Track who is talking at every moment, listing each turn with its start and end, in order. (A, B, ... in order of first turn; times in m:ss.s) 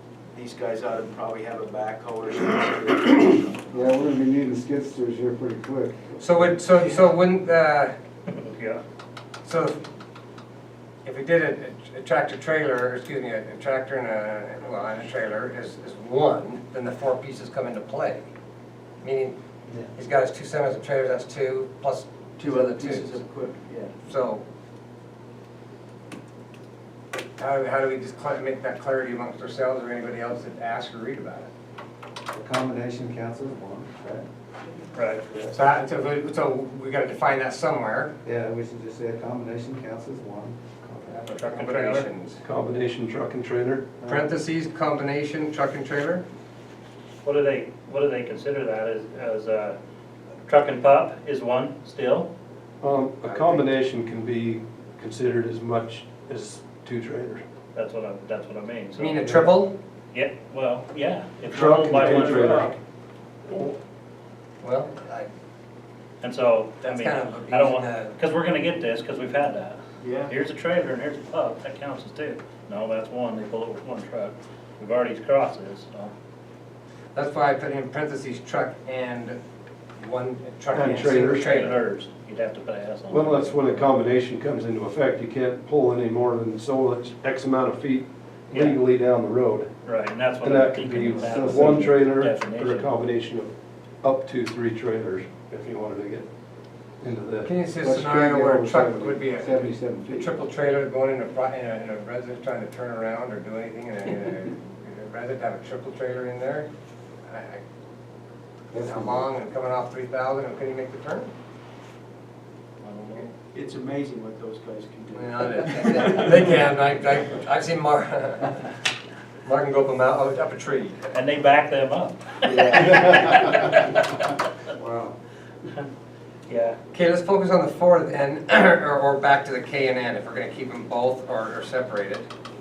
0:00.3-0:03.8 A
0:03.7-0:06.7 B
0:06.2-0:07.9 C
0:08.3-0:08.8 D
0:09.4-0:09.8 C
0:11.0-0:18.2 C
0:19.0-0:19.4 C
0:19.9-0:23.2 C
0:22.4-0:23.9 A
0:24.0-0:24.4 C
0:27.4-0:31.5 C
0:32.3-0:34.2 B
0:34.9-0:35.2 D
0:35.5-0:38.1 C
0:38.2-0:41.2 B
0:41.1-0:42.4 C
0:41.3-0:42.1 D
0:42.4-0:43.9 E
0:44.0-0:44.4 B
0:44.1-0:46.2 C
0:47.2-0:49.8 D
0:50.5-0:52.3 D
0:52.8-0:57.4 E
0:57.7-0:59.4 D
0:59.0-0:59.7 C
1:00.1-1:02.7 D
1:01.4-1:02.8 E
1:02.0-1:02.6 A
1:03.5-1:03.7 E
1:04.6-1:05.3 C
1:06.2-1:16.1 D
1:06.8-1:08.2 C
1:10.0-1:10.3 A
1:17.1-1:19.4 C
1:20.0-1:21.8 C
1:20.7-1:21.6 E
1:21.0-1:23.9 D
1:23.1-1:29.7 E
1:28.5-1:28.8 D
1:29.8-1:32.9 D
1:30.4-1:33.5 E
1:31.2-1:31.9 B
1:34.0-1:36.3 E
1:37.0-1:37.5 E
1:37.4-1:46.7 C
1:37.8-1:40.4 B
1:47.3-1:47.6 C
1:48.7-1:49.3 B
1:48.8-1:51.3 C
1:52.8-1:53.3 D
1:53.5-1:56.3 A
1:55.1-1:58.6 C
1:59.4-2:01.0 C
2:01.1-2:04.2 D
2:02.5-2:03.0 A
2:04.8-2:05.2 B
2:06.5-2:06.8 D
2:06.9-2:12.3 C